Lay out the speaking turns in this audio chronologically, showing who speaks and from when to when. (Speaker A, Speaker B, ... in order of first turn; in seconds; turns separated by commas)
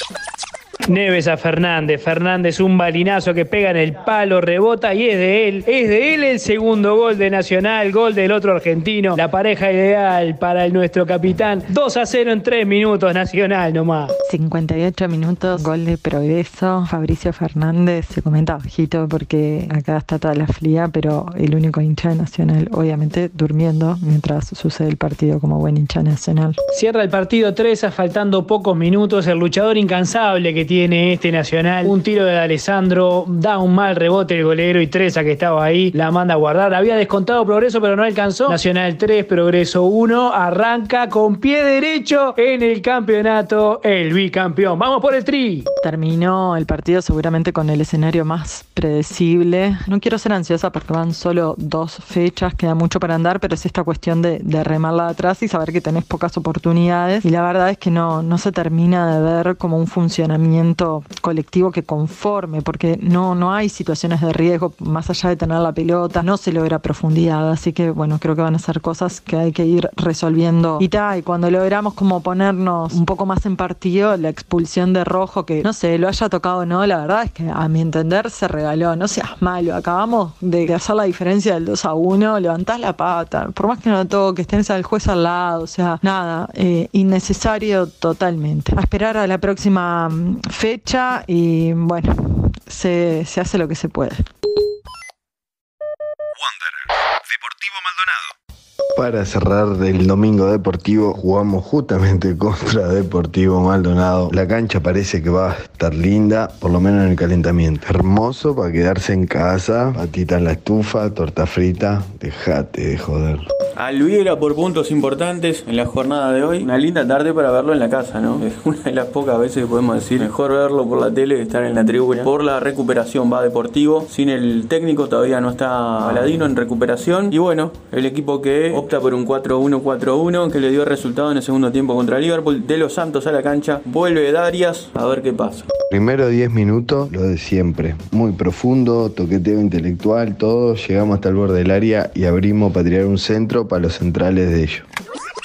Speaker A: 0.9-14.1, Speaker B: 14.3-26.6, Speaker A: 26.7-45.7, Speaker B: 45.8-94.3, Speaker C: 99.0-113.4, Speaker D: 113.8-135.6, Speaker C: 135.9-144.8